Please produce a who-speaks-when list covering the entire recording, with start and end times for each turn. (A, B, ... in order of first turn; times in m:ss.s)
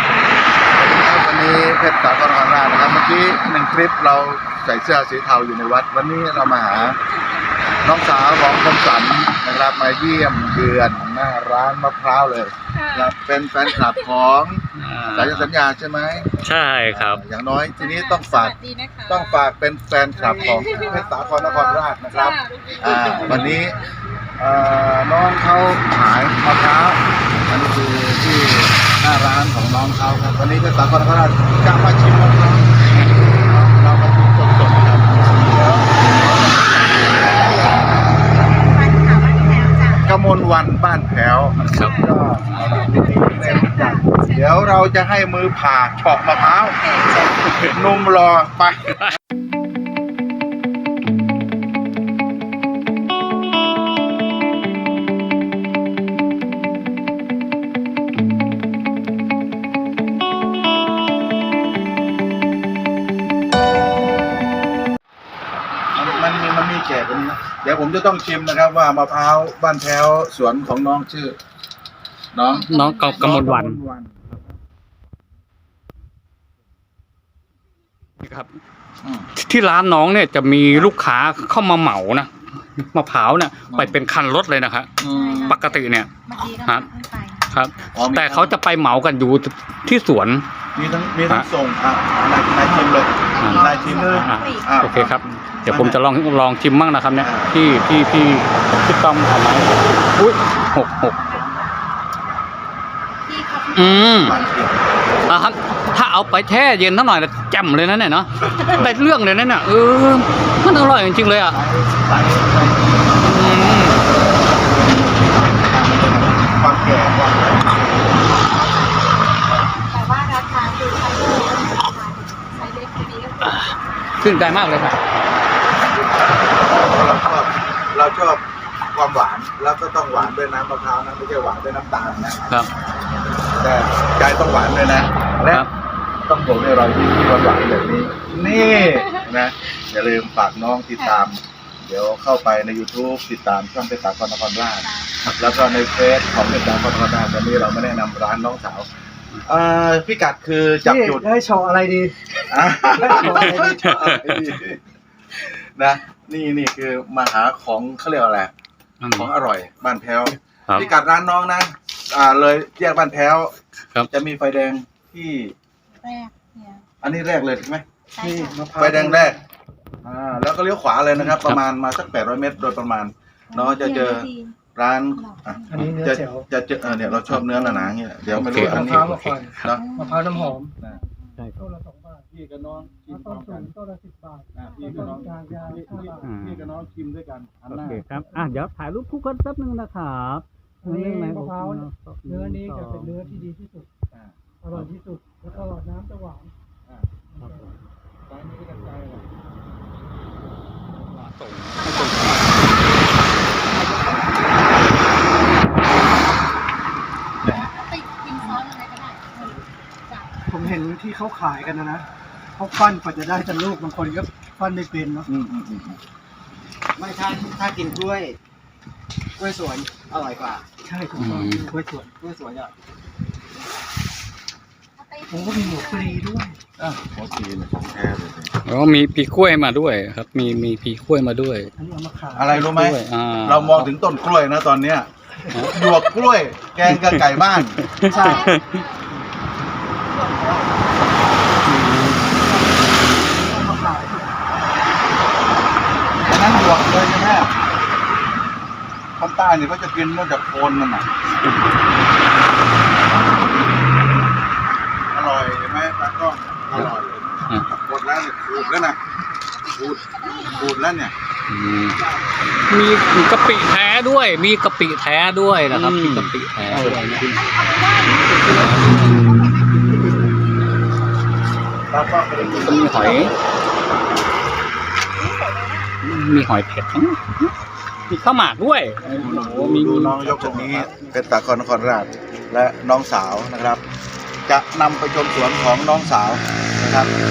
0:00.7-0:07.0 A
0:07.7-0:16.3 A
0:12.7-0:14.1 B
0:14.8-0:15.5 C
0:16.4-0:17.2 C
0:16.9-0:18.5 A
0:17.7-0:19.5 B
0:19.1-0:23.8 A
0:20.1-0:21.1 D
0:20.4-0:23.7 B
0:23.3-0:23.7 D
0:24.4-0:32.7 A
0:33.3-0:36.6 A
0:36.5-0:40.2 B
0:40.0-0:46.8 A
0:41.7-0:42.0 C
0:41.7-0:44.5 B
0:42.5-0:42.8 C
0:46.3-0:47.6 B
0:47.7-0:48.9 A
1:05.9-1:11.4 A
1:06.0-1:06.3 B
1:12.3-1:14.4 A
1:12.5-1:13.4 B
1:12.7-1:13.8 C
1:18.2-1:18.5 C
1:19.0-1:19.3 A
1:19.4-1:26.1 C
1:23.7-1:24.0 A
1:25.0-1:25.6 A
1:25.0-1:28.0 B
1:26.6-1:26.9 C
1:27.5-1:30.4 C
1:27.9-1:28.6 A
1:30.7-1:31.2 B
1:30.7-1:36.0 A
1:32.0-1:32.3 B
1:32.6-1:32.9 D
1:33.2-1:35.2 B
1:33.4-1:41.2 C
1:33.5-1:34.3 D
1:37.2-1:37.6 A
1:40.6-1:42.2 B
1:43.2-1:44.6 B
1:43.7-1:44.4 C
1:44.1-1:45.2 A
1:45.3-1:51.6 C
1:48.6-1:48.9 A
1:51.5-1:58.3 A
1:53.2-1:54.0 C
1:58.3-2:04.3 B
2:03.4-2:05.0 C
2:05.8-2:12.4 A
2:12.7-2:13.2 B
2:13.5-2:15.7 A
2:16.2-2:28.9 A
2:18.4-2:19.3 B
2:21.0-2:21.2 B
2:24.8-2:25.2 B
2:29.4-2:31.3 A
2:30.8-2:32.1 D
2:32.5-2:34.8 A
2:32.9-2:33.9 D
2:33.9-2:34.4 C
2:35.3-2:38.5 A
2:39.0-2:39.3 C
2:39.1-2:43.5 A
2:44.1-2:45.5 A
2:46.0-2:46.8 B
2:47.0-2:47.8 A
2:48.1-2:48.7 B
2:48.2-2:49.3 D
2:48.8-2:49.4 A
2:50.0-2:59.8 A
2:51.3-2:51.6 C
2:53.5-2:54.6 B
2:55.2-2:55.8 B
2:55.7-2:56.5 D
2:56.9-2:57.7 B
2:58.2-2:59.7 C
2:58.6-3:00.7 D
2:59.7-3:01.2 B
3:01.6-3:02.3 D
3:02.3-3:03.7 A
3:03.1-3:06.3 D
3:04.5-3:08.1 A
3:04.6-3:05.6 B
3:06.2-3:06.7 C
3:07.7-3:13.4 C
3:08.1-3:08.6 D
3:10.8-3:13.9 D
3:14.1-3:14.8 A
3:14.6-3:16.5 D
3:16.8-3:17.1 A
3:17.3-3:17.8 D
3:18.3-3:19.3 A
3:21.1-3:22.6 C
3:21.8-3:24.1 B
3:23.8-3:24.1 D
3:27.4-3:30.7 B
3:30.5-3:32.0 D
3:32.6-3:35.3 D
3:35.3-3:36.0 A
3:37.0-3:38.4 E
3:39.4-3:40.6 E
3:40.8-3:42.1 D
3:41.2-3:41.6 C
3:42.0-3:42.7 E
3:45.0-3:46.2 B
3:45.3-3:46.6 D
3:46.8-3:48.5 A
3:48.6-3:51.7 C
3:51.8-3:52.8 D
3:52.3-3:55.1 A
3:52.7-3:53.9 C
3:55.5-3:55.8 C
3:55.6-3:57.8 A
3:56.9-3:58.6 C
3:58.0-3:58.6 D
3:58.0-3:59.1 B
4:00.0-4:01.1 D
4:01.7-4:02.2 C
4:02.2-4:04.4 D
4:06.0-4:06.8 B
4:06.2-4:07.5 A
4:09.2-4:11.1 A
4:11.2-4:11.9 B
4:15.1-4:19.0 A
4:18.5-4:20.8 B
4:19.7-4:21.1 A
4:21.5-4:22.0 C
4:22.7-4:27.4 C
4:25.7-4:26.1 A
4:27.3-4:30.0 B
4:28.5-4:29.5 C
4:31.9-4:33.4 A
4:32.4-4:33.3 C
4:32.5-4:33.0 B
4:35.1-4:35.9 B
4:36.0-4:37.5 C
4:38.1-4:40.4 C
4:39.2-4:43.8 A
4:40.4-4:40.9 E
4:44.5-4:47.1 A